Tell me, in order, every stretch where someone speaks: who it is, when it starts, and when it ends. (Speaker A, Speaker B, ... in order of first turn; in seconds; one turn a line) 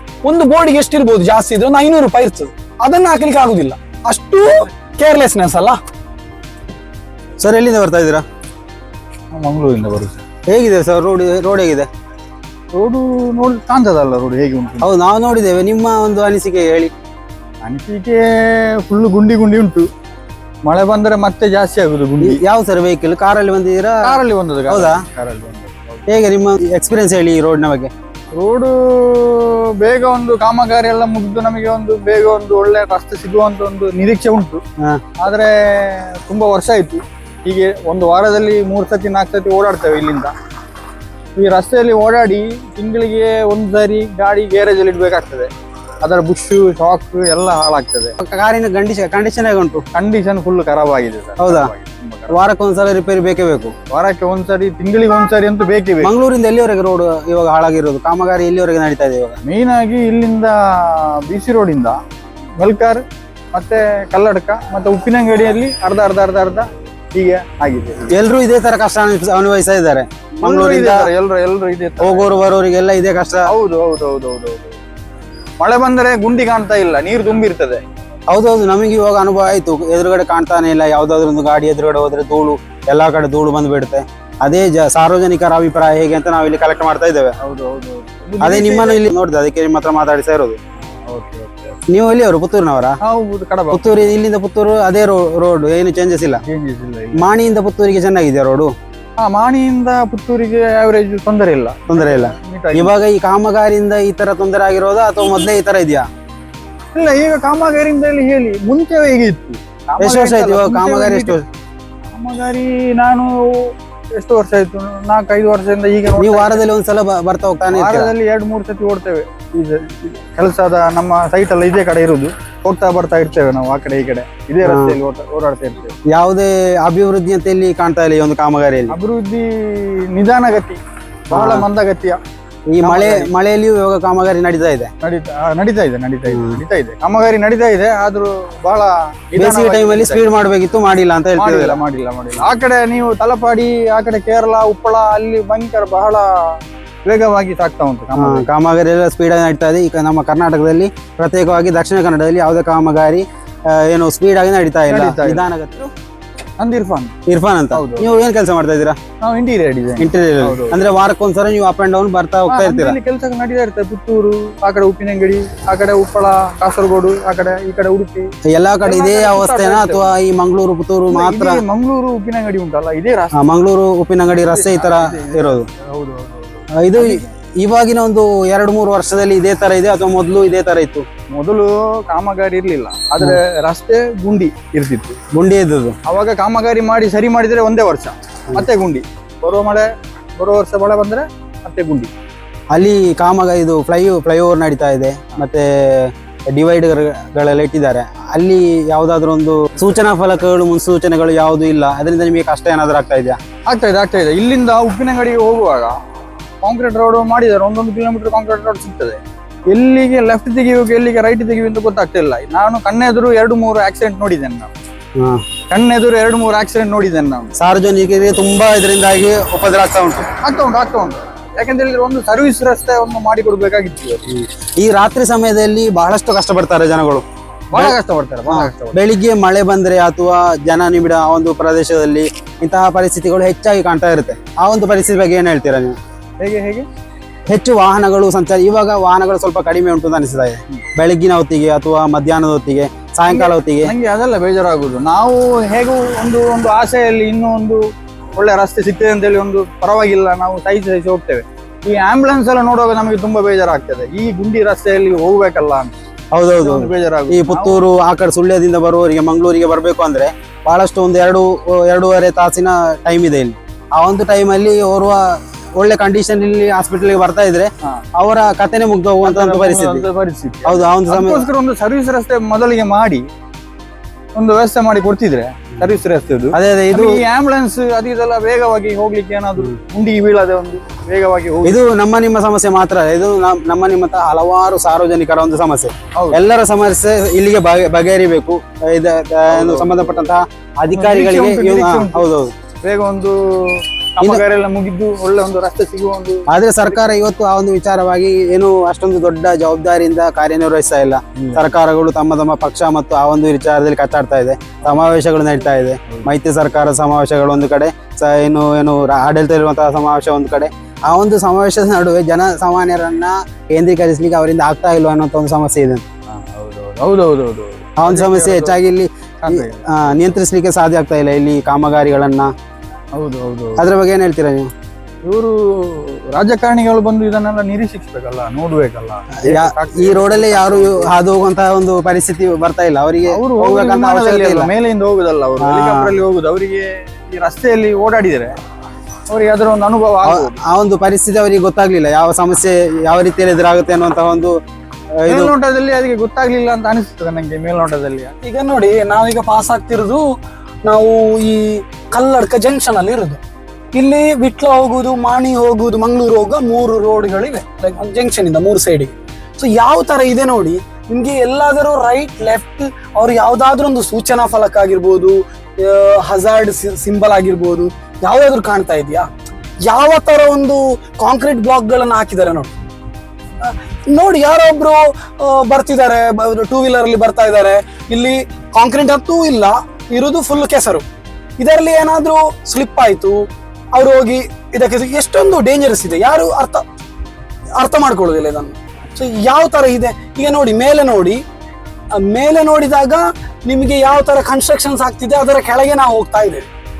Speaker A: 0.2-5.8
Speaker B: 7.4-8.2
Speaker C: 9.3-10.2
Speaker B: 10.5-11.9
Speaker C: 12.7-14.9
Speaker B: 14.8-16.9
Speaker C: 17.6-19.9
Speaker C: 20.6-22.4
Speaker B: 22.2-24.2
Speaker C: 24.0-26.0
Speaker B: 24.7-25.0
Speaker B: 26.1-27.9
Speaker C: 28.4-34.6
Speaker C: 35.2-40.3
Speaker C: 41.4-45.5
Speaker C: 46.0-48.1
Speaker B: 48.2-49.8
Speaker C: 49.9-52.4
Speaker B: 51.4-51.7
Speaker B: 52.3-53.7
Speaker C: 53.9-56.1
Speaker B: 56.0-59.4
Speaker C: 59.4-62.0
Speaker C: 62.6-68.1
Speaker B: 68.1-71.1
Speaker C: 70.4-72.3
Speaker B: 72.0-73.5
Speaker C: 73.5-74.8
Speaker C: 75.6-77.8
Speaker B: 78.3-87.3
Speaker C: 87.4-89.0
Speaker B: 88.4-90.6
Speaker C: 90.9-91.7
Speaker B: 91.9-93.0
Speaker C: 93.0-93.9
Speaker B: 93.7-96.4
Speaker C: 96.4-97.3
Speaker B: 97.1-98.7
Speaker C: 99.2-102.9
Speaker B: 101.9-106.0
Speaker C: 106.9-111.4
Speaker B: 110.0-111.4
Speaker C: 112.1-116.6
Speaker B: 116.2-118.1
Speaker C: 117.7-126.0
Speaker B: 124.6-125.0
Speaker B: 126.1-128.9
Speaker C: 128.9-132.2
Speaker B: 131.3-131.7
Speaker B: 132.7-134.9
Speaker C: 132.8-133.3
Speaker C: 135.0-140.2
Speaker B: 136.3-136.6
Speaker B: 139.3-141.8
Speaker C: 141.4-148.4
Speaker B: 148.2-155.9
Speaker C: 154.9-155.4
Speaker C: 156.6-157.1
Speaker B: 157.3-159.0
Speaker C: 157.7-158.1
Speaker C: 159.2-160.9
Speaker B: 160.0-163.0
Speaker C: 162.5-168.3
Speaker B: 168.5-171.6
Speaker C: 168.8-170.1
Speaker C: 171.1-173.4
Speaker B: 173.3-175.6
Speaker C: 174.5-177.2
Speaker B: 176.8-181.0
Speaker C: 181.3-185.2
Speaker B: 185.3-185.9
Speaker C: 186.1-192.1
Speaker B: 192.7-203.4
Speaker C: 203.7-205.9
Speaker C: 206.6-214.7
Speaker B: 215.2-215.4
Speaker C: 215.7-217.5
Speaker B: 217.6-220.3
Speaker C: 220.4-224.2
Speaker B: 224.3-227.2
Speaker C: 227.7-229.0
Speaker B: 228.5-235.9
Speaker C: 236.4-236.8
Speaker B: 237.5-243.9
Speaker C: 243.3-247.8
Speaker C: 248.3-255.9
Speaker B: 256.3-270.0
Speaker C: 256.6-257.8
Speaker C: 269.2-273.2
Speaker B: 270.6-271.5
Speaker C: 274.3-281.8
Speaker B: 276.5-277.2
Speaker B: 281.6-292.5
Speaker C: 289.5-290.3
Speaker C: 290.9-292.3
Speaker C: 292.8-296.5
Speaker B: 296.5-316.0
Speaker C: 301.4-301.6
Speaker C: 316.3-318.8
Speaker B: 318.0-322.5
Speaker C: 319.4-319.8
Speaker C: 323.1-323.8
Speaker B: 323.8-324.7
Speaker C: 325.2-331.1
Speaker B: 329.4-334.7
Speaker C: 333.3-338.5
Speaker B: 335.6-336.1
Speaker C: 339.3-340.5
Speaker B: 340.2-344.5
Speaker B: 345.2-345.5
Speaker C: 345.3-348.3
Speaker A: 348.4-350.2
Speaker A: 350.8-353.4
Speaker A: 353.9-369.3
Speaker A: 369.9-372.7
Speaker A: 373.6-381.0
Speaker A: 381.6-386.8
Speaker A: 387.8-391.4
Speaker A: 392.2-396.7